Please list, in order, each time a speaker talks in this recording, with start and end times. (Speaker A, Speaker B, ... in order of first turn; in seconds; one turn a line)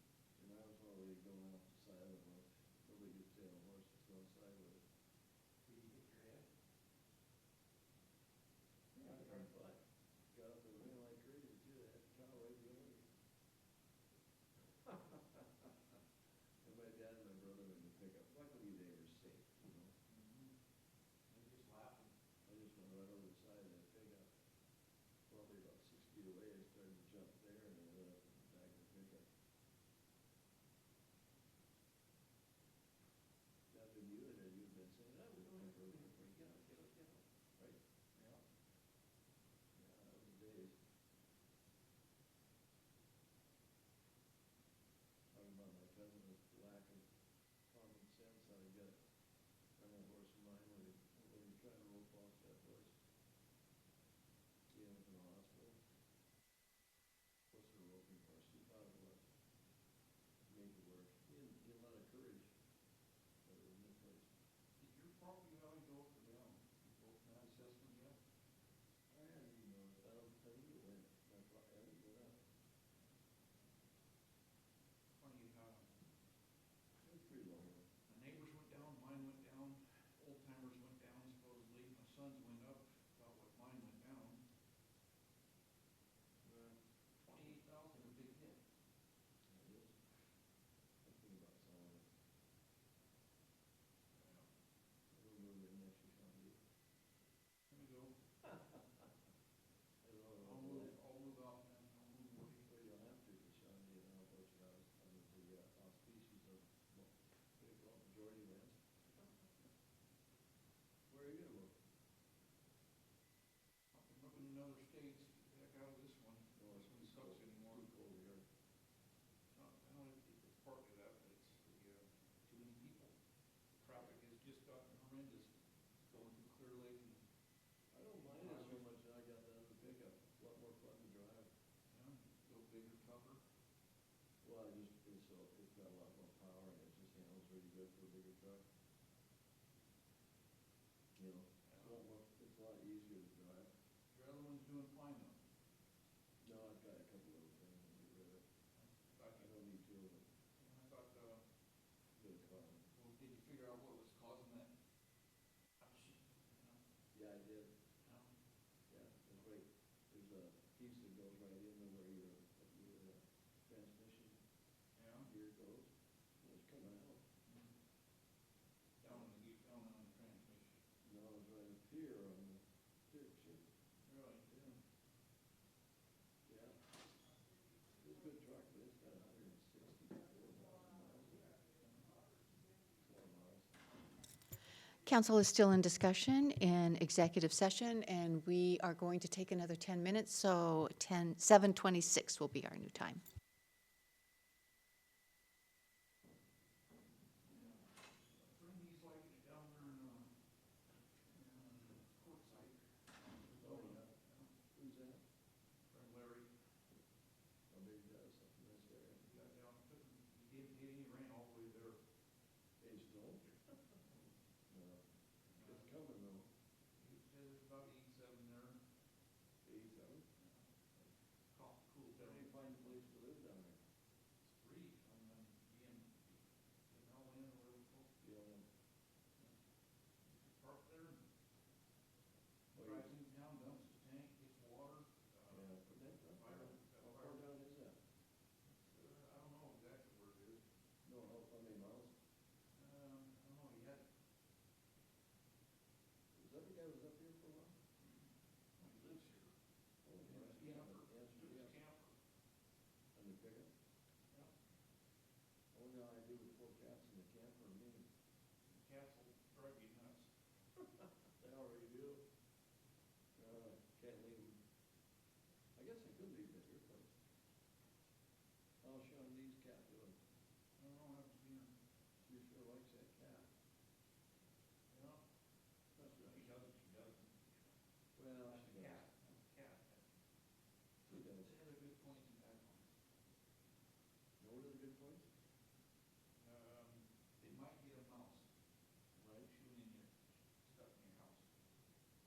Speaker A: 0.4-4.8
Speaker B: 5.6-6.5
Speaker A: 9.0-9.8
Speaker B: 9.0-9.5
Speaker A: 10.3-13.1
Speaker A: 14.8-15.7
Speaker A: 16.6-19.9
Speaker B: 20.1-20.6
Speaker B: 21.3-22.1
Speaker A: 22.4-24.3
Speaker A: 25.3-29.3
Speaker A: 33.7-37.8
Speaker B: 38.1-38.4
Speaker A: 39.8-40.8
Speaker A: 45.3-47.1
Speaker A: 47.7-49.0
Speaker A: 49.8-52.9
Speaker A: 54.7-55.8
Speaker A: 57.5-59.3
Speaker A: 60.5-62.5
Speaker A: 63.4-64.3
Speaker B: 64.8-68.2
Speaker A: 69.1-72.4
Speaker B: 75.2-75.9
Speaker A: 77.0-77.9
Speaker B: 78.1-84.4
Speaker B: 87.2-88.6
Speaker A: 89.5-90.1
Speaker A: 91.0-92.0
Speaker B: 94.2-94.5
Speaker A: 95.1-96.6
Speaker B: 97.7-98.2
Speaker A: 100.0-101.0
Speaker B: 100.4-102.7
Speaker A: 102.7-108.8
Speaker A: 111.1-111.8
Speaker B: 113.9-117.8
Speaker A: 116.5-118.5
Speaker B: 119.5-123.1
Speaker B: 123.8-125.5
Speaker B: 126.0-127.2
Speaker A: 127.9-131.5
Speaker B: 128.2-128.9
Speaker B: 131.9-133.4
Speaker A: 134.4-138.6
Speaker A: 141.2-143.7
Speaker B: 141.7-142.0
Speaker B: 144.1-145.3
Speaker A: 146.4-148.4
Speaker B: 148.8-149.5
Speaker A: 149.3-150.2
Speaker B: 150.6-151.4
Speaker A: 152.2-152.8
Speaker B: 152.9-154.7
Speaker B: 155.8-156.8
Speaker A: 157.1-157.7
Speaker B: 158.0-158.3
Speaker A: 158.9-164.4
Speaker B: 165.0-165.3
Speaker A: 165.2-167.2
Speaker B: 169.0-170.8
Speaker A: 171.0-173.6
Speaker B: 174.1-174.8
Speaker A: 176.5-176.8
Speaker A: 178.0-181.6
Speaker B: 181.8-182.2
Speaker A: 183.0-183.8
Speaker C: 185.1-193.2
Speaker B: 197.5-197.8
Speaker B: 198.3-200.3
Speaker B: 201.3-204.5
Speaker A: 203.6-204.1
Speaker A: 204.7-205.2
Speaker B: 205.9-206.5
Speaker A: 207.7-209.3
Speaker B: 209.3-212.0
Speaker A: 212.8-213.5
Speaker A: 214.7-215.1
Speaker B: 215.6-215.9
Speaker A: 215.6-216.5
Speaker B: 217.0-218.8
Speaker A: 219.6-220.3
Speaker B: 220.4-222.5
Speaker A: 222.1-223.8
Speaker B: 224.5-228.1
Speaker A: 228.2-228.7
Speaker B: 230.2-231.2
Speaker A: 232.7-233.1
Speaker B: 232.8-237.4
Speaker A: 235.5-238.0
Speaker B: 238.7-240.6
Speaker A: 241.1-242.1
Speaker B: 242.8-244.1
Speaker A: 246.3-247.8
Speaker B: 248.0-248.3
Speaker B: 248.8-249.5
Speaker A: 250.0-251.8
Speaker B: 250.2-252.2
Speaker A: 253.1-253.7
Speaker A: 255.7-258.1
Speaker B: 258.7-260.3
Speaker A: 261.4-262.2
Speaker A: 263.4-264.6
Speaker A: 265.8-267.1
Speaker A: 268.8-270.2
Speaker B: 270.8-271.7
Speaker A: 272.2-273.5
Speaker B: 274.9-275.2
Speaker A: 276.0-276.5
Speaker B: 276.0-277.7
Speaker A: 278.2-279.1
Speaker B: 278.4-280.0
Speaker A: 281.1-281.6
Speaker B: 281.2-282.9
Speaker A: 284.4-285.3
Speaker B: 286.4-288.4
Speaker B: 289.2-291.4